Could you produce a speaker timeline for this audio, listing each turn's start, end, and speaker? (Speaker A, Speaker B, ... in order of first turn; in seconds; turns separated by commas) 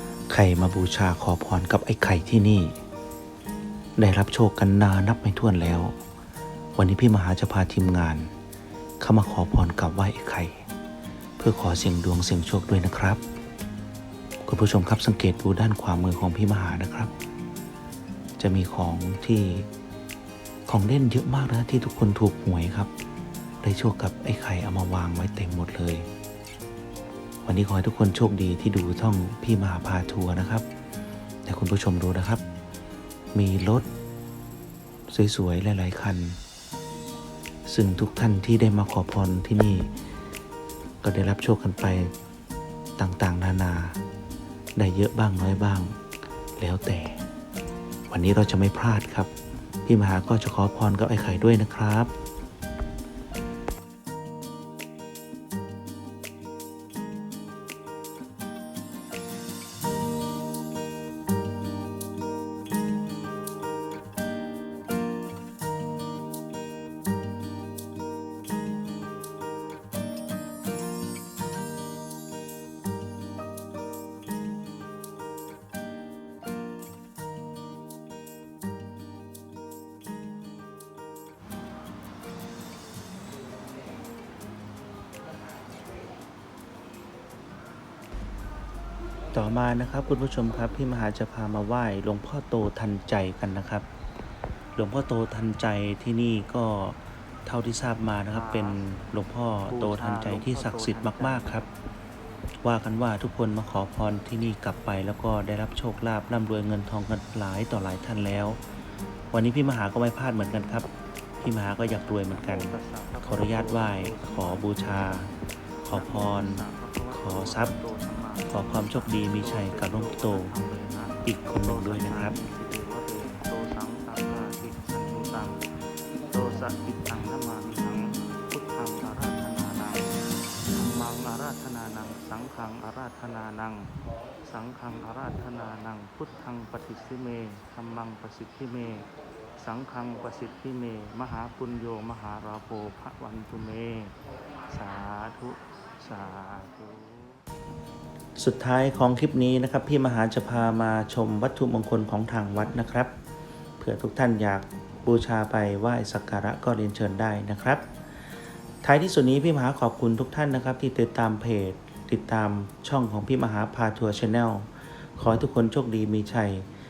Speaker A: 0.3-2.8, Speaker A: 4.0-5.9, Speaker A: 6.8-8.3, Speaker A: 9.0-10.7, Speaker A: 11.4-13.2, Speaker A: 14.4-17.1, Speaker A: 18.4-19.7, Speaker A: 20.7-22.9, Speaker A: 23.6-26.1, Speaker A: 27.5-30.6, Speaker A: 31.5-32.4, Speaker A: 33.3-33.9, Speaker A: 35.1-36.4, Speaker A: 37.7-39.9, Speaker A: 41.0-42.1, Speaker A: 43.0-44.0, Speaker A: 44.8-46.0, Speaker A: 46.6-47.2, Speaker A: 48.1-49.3, Speaker A: 49.9-52.1, Speaker A: 89.3-93.9, Speaker A: 94.8-101.7, Speaker B: 98.3-98.8, Speaker B: 99.7-101.7, Speaker A: 102.6-108.6, Speaker A: 109.3-110.9, Speaker A: 111.4-115.3, Speaker B: 112.3-115.0, Speaker A: 115.8-117.8, Speaker B: 115.9-125.7, Speaker A: 118.5-120.5, Speaker A: 121.2-122.4, Speaker B: 126.3-133.9, Speaker B: 134.5-144.1, Speaker B: 144.7-147.4, Speaker A: 148.4-153.1, Speaker A: 153.8-157.9, Speaker A: 158.8-166.7